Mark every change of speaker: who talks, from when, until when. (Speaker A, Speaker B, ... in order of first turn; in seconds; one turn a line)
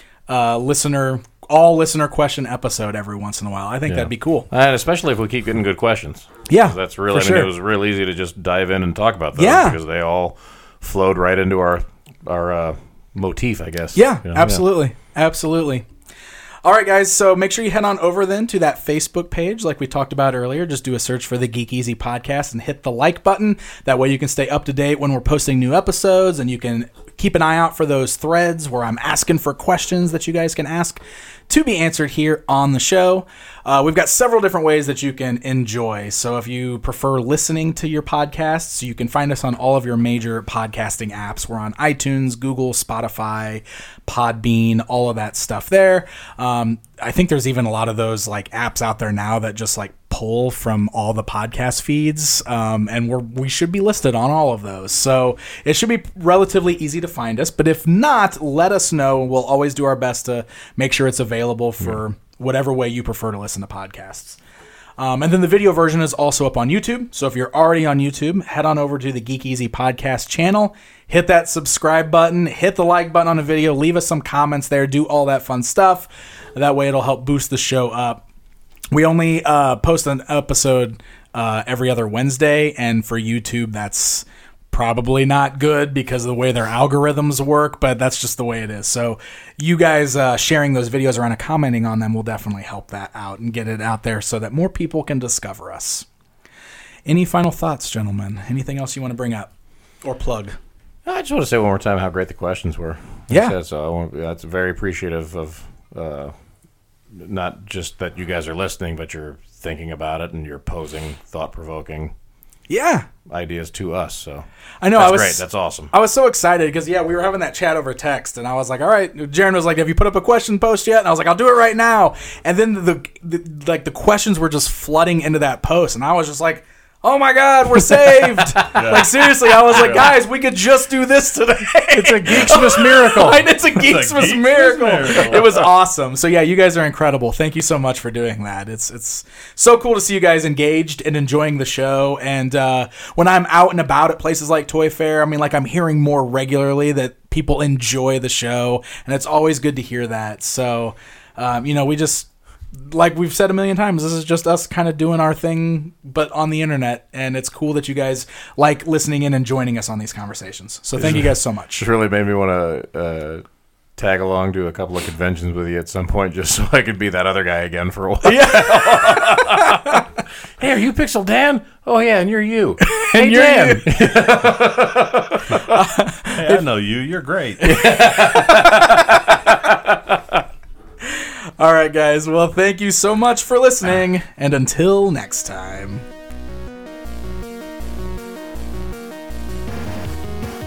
Speaker A: 0.3-4.5
Speaker B: 3.9-14.6
Speaker A: 6.5-7.5
Speaker A: 9.4-9.8
Speaker A: 13.9-15.9
Speaker A: 16.6-64.4
Speaker A: 65.0-78.2
Speaker A: 78.9-96.1
Speaker A: 97.1-99.5
Speaker A: 100.0-100.6
Speaker B: 101.1-106.3
Speaker B: 107.1-112.1
Speaker A: 112.7-113.1
Speaker B: 113.3-115.9
Speaker A: 114.8-161.8
Speaker B: 127.9-129.9
Speaker C: 128.7-129.2
Speaker C: 129.7-130.1
Speaker B: 131.9-133.5
Speaker C: 133.7-135.6
Speaker B: 161.0-163.4
Speaker B: 164.0-170.0
Speaker A: 168.2-170.0
Speaker B: 170.6-175.6
Speaker A: 172.8-174.2
Speaker A: 175.5-176.6
Speaker C: 176.4-177.8
Speaker A: 177.6-179.2
Speaker B: 177.7-180.0
Speaker A: 181.2-186.1